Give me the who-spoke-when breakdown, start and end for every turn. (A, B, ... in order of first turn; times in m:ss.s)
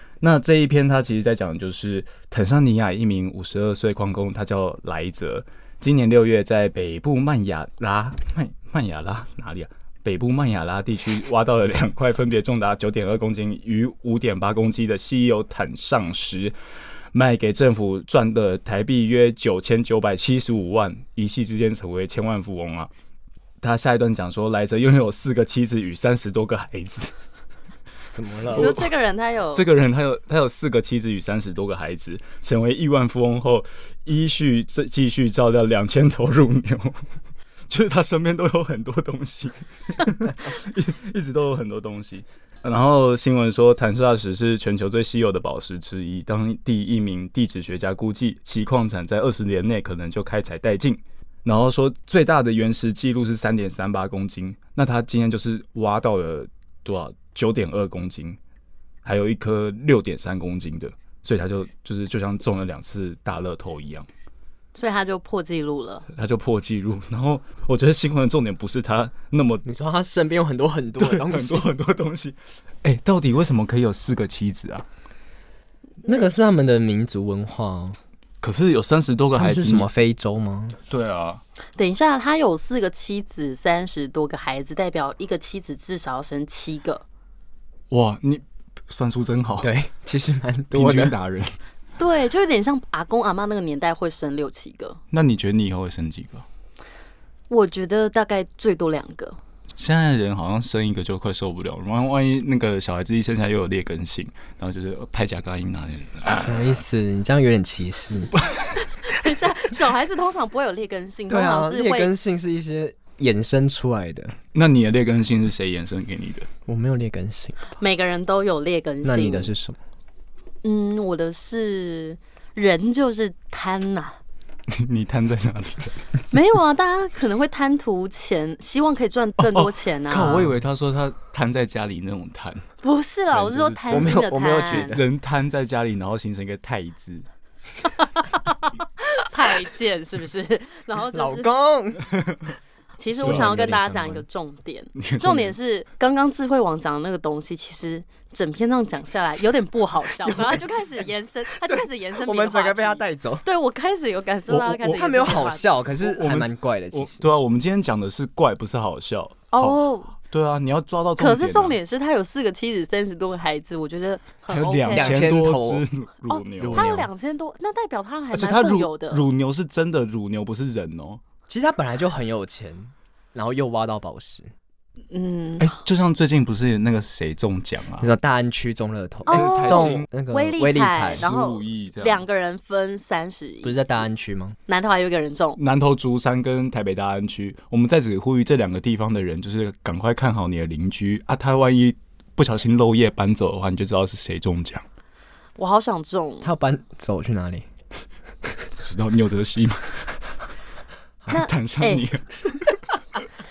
0:00.2-0:16.6 A
0:17.1-0:22.9 A
0:23.6-0:27.1 A
0:28.1-0:28.7 B
0:28.5-0:29.6 C
0:28.5-0:28.9 A
0:29.5-0:37.0 A
0:37.7-0:58.4 A
0:59.0-1:04.1 A
1:04.7-1:06.1 C
1:06.1-1:09.6 A
1:09.6-1:11.7 B
1:11.0-1:14.9 A
1:16.0-1:18.0 B
1:18.4-1:19.9 A
1:19.3-1:20.8 B
1:20.9-1:21.4 A
1:21.8-1:27.0 C
1:27.9-1:29.7 A
1:29.6-1:31.1 B
1:30.7-1:31.5 A
1:32.0-1:35.0 C
1:35.1-1:36.4 A
1:37.5-1:39.4 C
1:39.8-1:46.8 A
1:46.2-1:48.3 B
1:48.4-1:48.8 A
1:48.8-1:52.1 C
1:51.3-1:54.4 B
1:54.5-1:56.5 A
1:56.7-1:57.6 B
1:57.7-1:59.5 C
1:59.0-1:59.8 B
2:00.6-2:04.2 C
2:04.7-2:06.0 A
2:06.3-2:10.5 C
2:09.4-2:12.6 A
2:12.8-2:15.0 C
2:13.3-2:14.2 A
2:13.9-2:15.1 B
2:14.7-2:17.2 A
2:18.0-2:21.5 C
2:21.1-2:22.1 B
2:22.1-2:22.5 A
2:23.0-2:35.7 C
2:23.1-2:24.2 B
2:25.0-2:25.6 A
2:30.2-2:30.9 B
2:31.6-2:33.4 B
2:34.5-2:37.3 B
2:34.9-2:35.2 A
2:36.0-2:41.8 A
2:39.5-2:40.2 C
2:41.2-2:45.2 C
2:44.5-2:46.9 A
2:44.9-2:45.8 B
2:46.3-2:49.3 C
2:46.6-2:47.1 B
2:48.3-2:51.2 A
2:51.5-2:54.5 B
2:55.1-2:55.8 C
2:55.6-2:58.1 A
2:58.0-3:01.3 B
2:59.3-3:04.0 C
2:59.3-3:00.0 A
3:01.1-3:02.3 A
3:03.6-3:04.6 B
3:04.7-3:05.6 C
3:05.6-3:14.8 A
3:15.6-3:16.5 C
3:16.4-3:17.6 B
3:18.8-3:20.2 A
3:21.3-3:22.0 C
3:21.3-3:22.8 A